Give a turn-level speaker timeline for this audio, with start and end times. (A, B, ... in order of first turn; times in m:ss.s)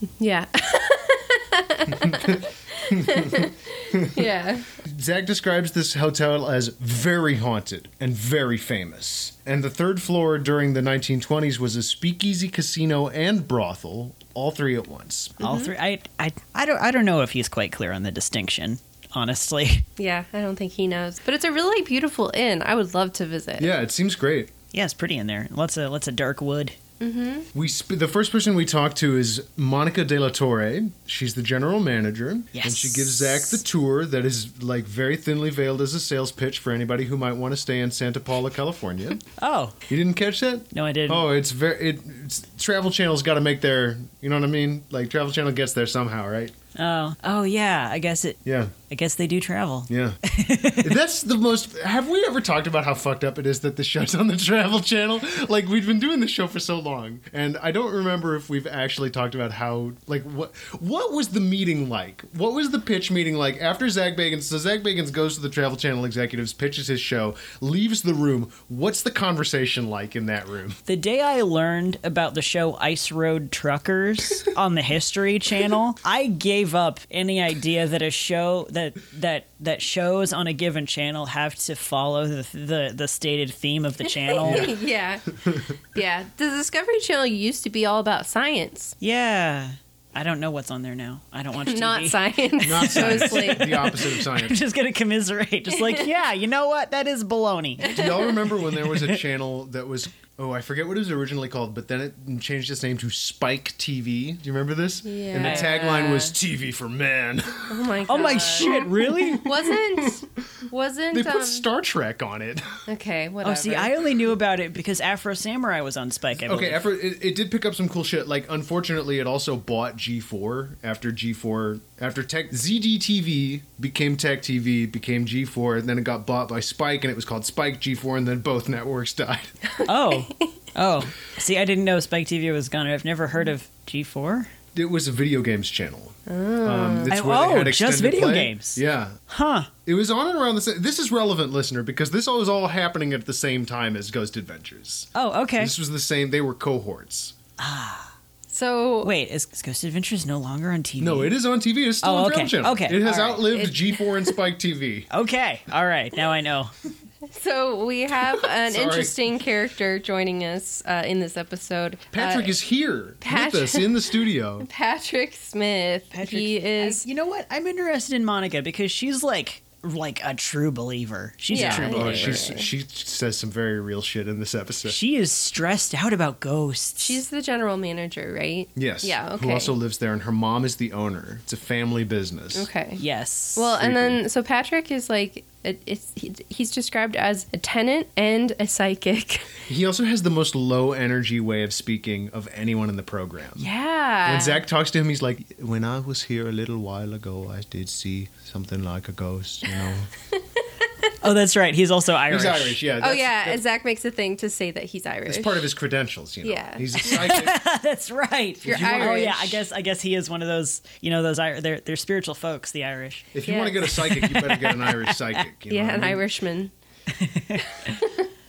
0:00.2-0:04.7 A
0:01.9-0:04.2 B
0:04.8-0:15.4 B
0:15.4-0:15.7 A
0:15.4-0:19.9 C
0:20.0-0:23.7 A
0:23.6-0:24.5 B
0:24.7-0:26.8 C
0:27.0-0:27.5 A
0:27.5-0:39.2 B
0:32.5-0:33.6 C
0:39.4-0:39.8 C
0:39.9-0:46.5 B
0:40.7-0:41.2 C
0:46.8-0:51.0 C
0:48.4-0:48.7 B
0:49.9-0:50.2 B
0:50.8-1:10.8 B
1:10.9-1:24.7 C
1:24.3-1:25.2 A
1:24.4-1:24.7 B
1:25.9-1:28.9 A
1:29.0-1:39.2 C
1:31.6-1:33.9 A
1:32.6-1:34.6 B
1:35.8-1:36.0 A
1:37.8-1:38.3 A
1:37.9-1:48.8 B
1:45.0-1:46.3 A
1:45.4-1:45.8 C
1:47.7-1:51.6 A
1:48.1-1:49.5 C
1:51.1-1:52.6 B
1:52.9-1:53.9 A
1:53.4-1:56.8 C
1:56.4-2:09.5 B
2:09.7-2:10.4 A
2:09.8-2:14.5 C
2:14.7-2:19.2 B
2:16.3-2:17.1 A
2:17.1-2:19.7 C
2:19.8-2:27.4 B
2:25.1-2:25.7 C
2:27.6-2:28.1 C
2:28.5-2:29.1 A
2:29.0-2:31.3 C
2:31.0-2:35.1 B
2:32.0-2:33.7 C
2:35.1-2:36.7 C
2:37.3-2:42.5 A
2:38.6-2:39.2 B
2:42.1-2:44.7 B
2:43.2-2:44.1 A
2:44.6-2:47.0 A
2:46.1-2:52.4 C
2:51.5-2:52.7 A
2:51.5-2:55.0 B
2:54.8-2:57.2 C
2:57.0-2:59.7 A
2:58.8-3:02.7 B
3:02.5-3:03.0 A
3:03.0-3:03.7 C
3:03.5-3:09.5 A
3:03.8-3:04.2 B
3:09.6-3:13.7 B
3:13.6-3:14.6 A
3:14.2-3:20.1 B
3:21.2-3:22.8 C
3:22.3-3:23.6 B
3:23.0-3:25.6 A
3:25.3-3:27.6 B
3:26.4-3:27.2 A
3:27.0-3:33.3 C
3:28.6-3:29.2 B
3:28.6-3:29.6 A
3:33.3-3:36.2 B
3:33.4-3:33.9 A
3:33.9-3:35.4 C
3:35.7-3:36.7 A
3:37.1-3:38.0 C
3:37.9-3:38.3 A